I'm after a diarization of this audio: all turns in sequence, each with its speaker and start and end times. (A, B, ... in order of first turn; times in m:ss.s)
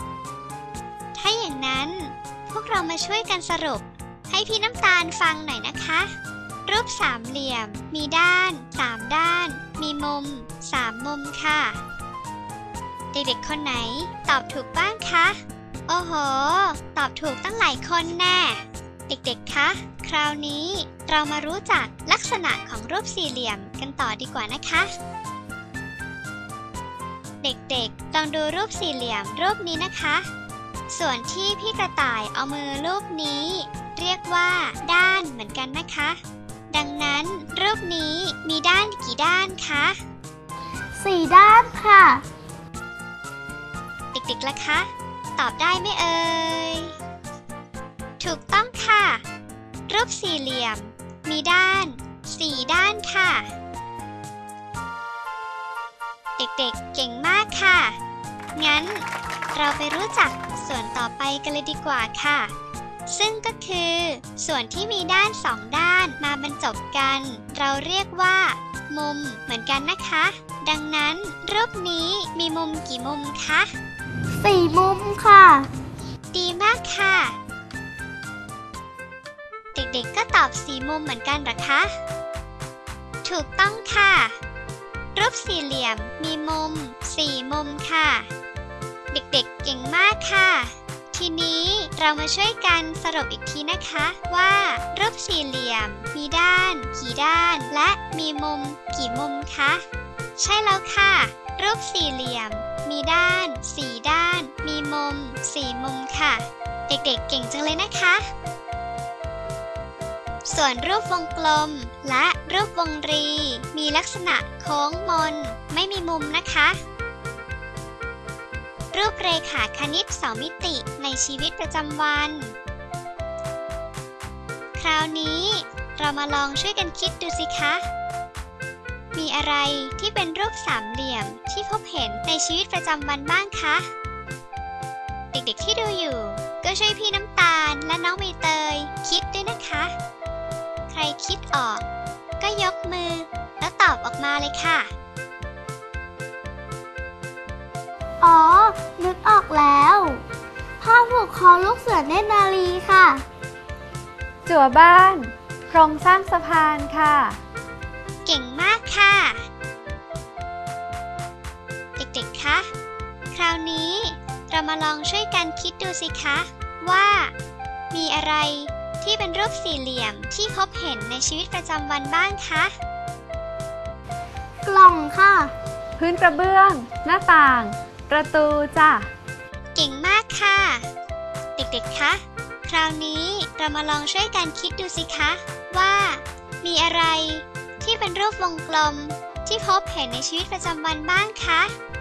0:01.2-0:06.1 A
0:06.7-0:11.8 A
0:13.1-0:24.9 A
0:27.4-0:30.2 A
0:30.9-0:36.2 A
0:36.7-0:40.0 A
0:41.0-0:42.2 B
0:44.1-0:46.9 A
0:48.2-0:49.2 A
0:49.9-0:53.5 A
0:56.4-0:58.0 A
0:58.6-1:02.5 A
1:03.1-1:13.7 A
1:14.3-1:15.7 B
1:16.3-1:17.3 A
1:19.7-1:21.9 A
1:23.2-1:24.4 A
1:25.1-1:28.3 A
1:29.1-1:39.8 A
1:40.4-1:48.3 A
1:50.4-1:56.8 A
1:58.9-2:02.5 A
2:04.8-2:07.8 A
2:09.1-2:13.9 A
2:15.3-2:19.9 A
2:20.9-2:21.8 A
2:22.4-2:24.9 A
2:28.2-2:30.2 B
2:30.8-2:33.2 B
2:34.4-2:37.4 C
2:38.2-2:39.4 A
2:42.0-2:42.7 A
2:43.3-2:47.3 A
2:47.9-2:52.7 A
2:54.6-2:55.5 B
2:56.0-2:59.1 C
2:59.7-3:00.8 A
3:01.6-3:11.7 A